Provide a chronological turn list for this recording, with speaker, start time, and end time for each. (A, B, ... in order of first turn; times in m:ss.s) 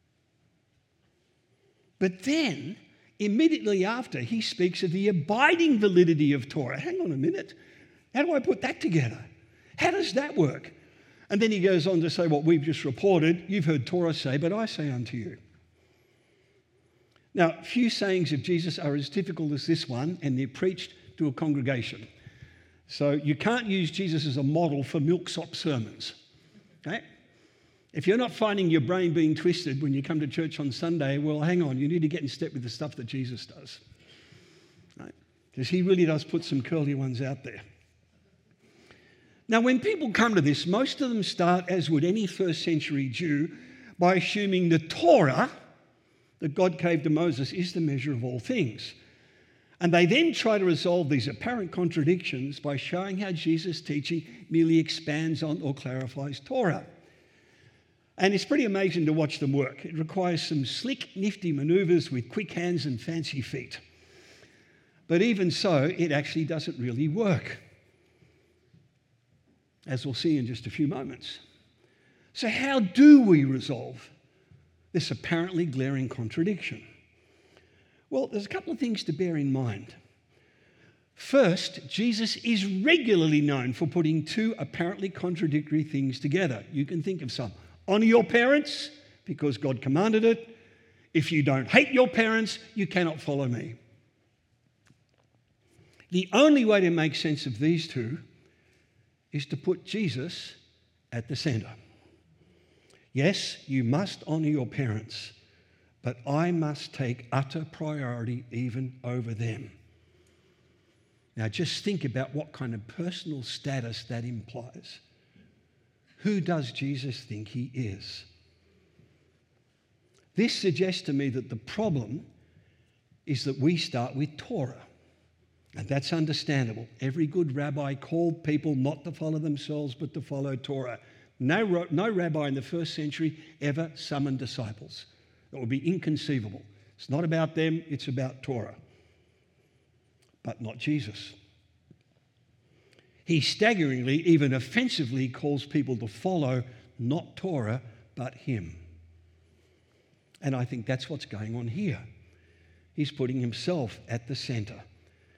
0:02.0-0:07.6 A
0:08.1-0:09.3 A
0:09.8-0:10.8 A
0:11.3-0:15.4 A
0:17.3-0:22.1 A
0:22.9-0:26.2 A
0:27.9-0:33.8 A
0:35.0-0:37.6 A
0:39.5-0:45.5 A
0:46.4-0:49.0 A
0:49.8-0:56.9 A
0:58.2-1:03.8 A
1:05.1-1:07.6 A
1:09.9-1:11.4 A
1:12.3-1:14.1 A
1:14.9-1:16.8 A
1:18.1-1:20.0 A
1:21.2-1:30.6 A
1:31.1-1:33.8 A
1:36.1-1:38.2 A
1:39.3-1:40.6 A
1:41.1-1:41.8 A
1:43.1-1:45.4 A
1:46.0-1:49.7 A
1:51.4-1:55.0 A
1:56.2-1:58.3 A
2:00.4-2:02.3 A
2:03.3-2:04.8 A
2:05.8-2:18.8 A
2:20.4-2:21.4 A
2:23.3-2:28.8 A
2:30.4-2:32.0 A
2:33.0-2:34.8 A